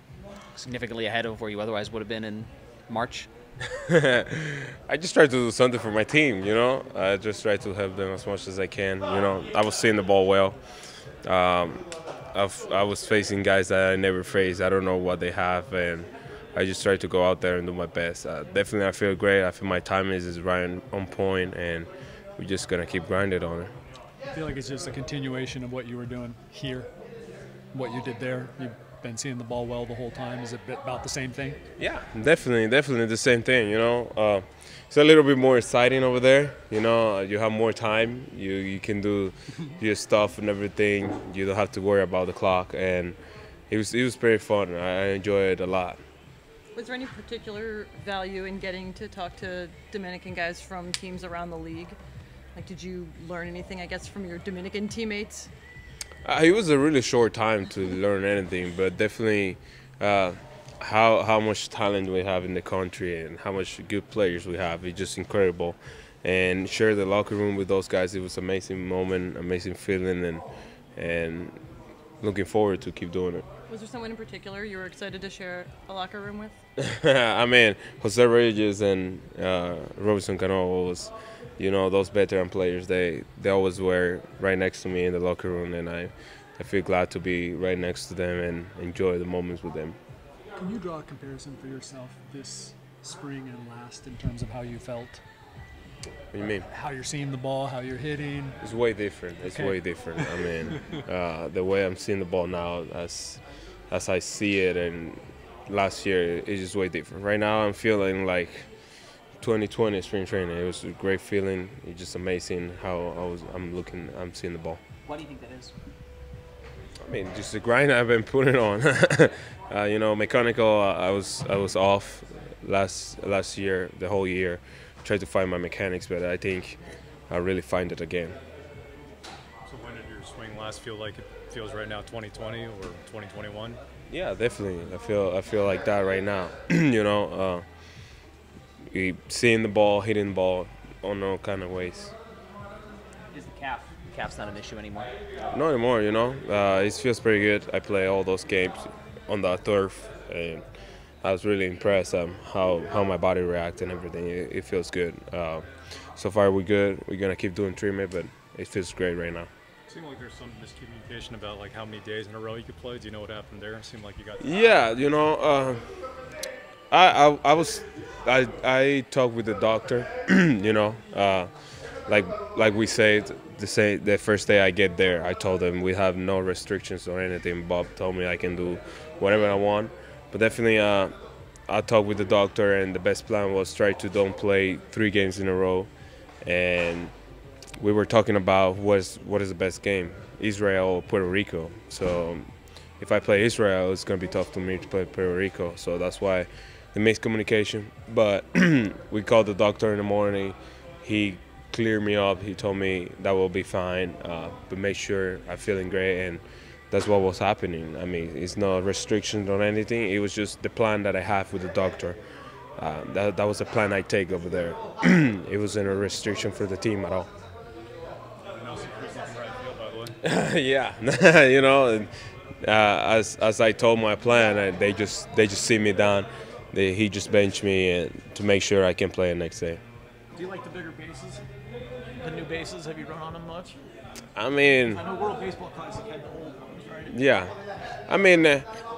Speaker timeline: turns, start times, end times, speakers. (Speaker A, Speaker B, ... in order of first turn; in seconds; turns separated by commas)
Speaker A: 0.5-3.3, Speaker B: 3.8-10.6, Speaker B: 11.2-23.7, Speaker C: 24.3-26.9, Speaker C: 27.7-31.6, Speaker B: 31.8-43.2, Speaker B: 43.7-46.0, Speaker D: 46.7-52.0, Speaker D: 52.5-55.5, Speaker B: 56.2-70.4, Speaker B: 71.0-71.5, Speaker B: 72.2-73.4, Speaker D: 73.7-76.6, Speaker B: 76.8-90.0, Speaker C: 90.5-95.2, Speaker B: 96.3-96.7, Speaker C: 96.4-98.6, Speaker B: 98.6-108.7, Speaker C: 99.4-101.0, Speaker B: 109.4-114.8, Speaker A: 115.0-115.7, Speaker B: 117.0-128.4, Speaker E: 129.7-133.8, Speaker B: 134.1-137.6, Speaker B: 138.9-142.1, Speaker A: 143.3-145.1, Speaker B: 145.5-150.6, Speaker B: 151.2-155.6, Speaker B: 156.2-159.5, Speaker E: 159.9-164.9, Speaker B: 164.4-165.8, Speaker B: 166.9-171.5, Speaker B: 172.1-181.1, Speaker B: 181.7-185.9, Speaker B: 186.4-187.1, Speaker B: 187.8-212.2, Speaker B: 212.8-217.3, Speaker E: 218.5-220.2, Speaker B: 220.2-222.1, Speaker B: 222.6-229.8, Speaker F: 230.3-231.4, Speaker F: 232.2-233.7, Speaker B: 234.3-235.0, Speaker F: 234.8-237.1, Speaker B: 237.1-237.5, Speaker B: 238.1-238.7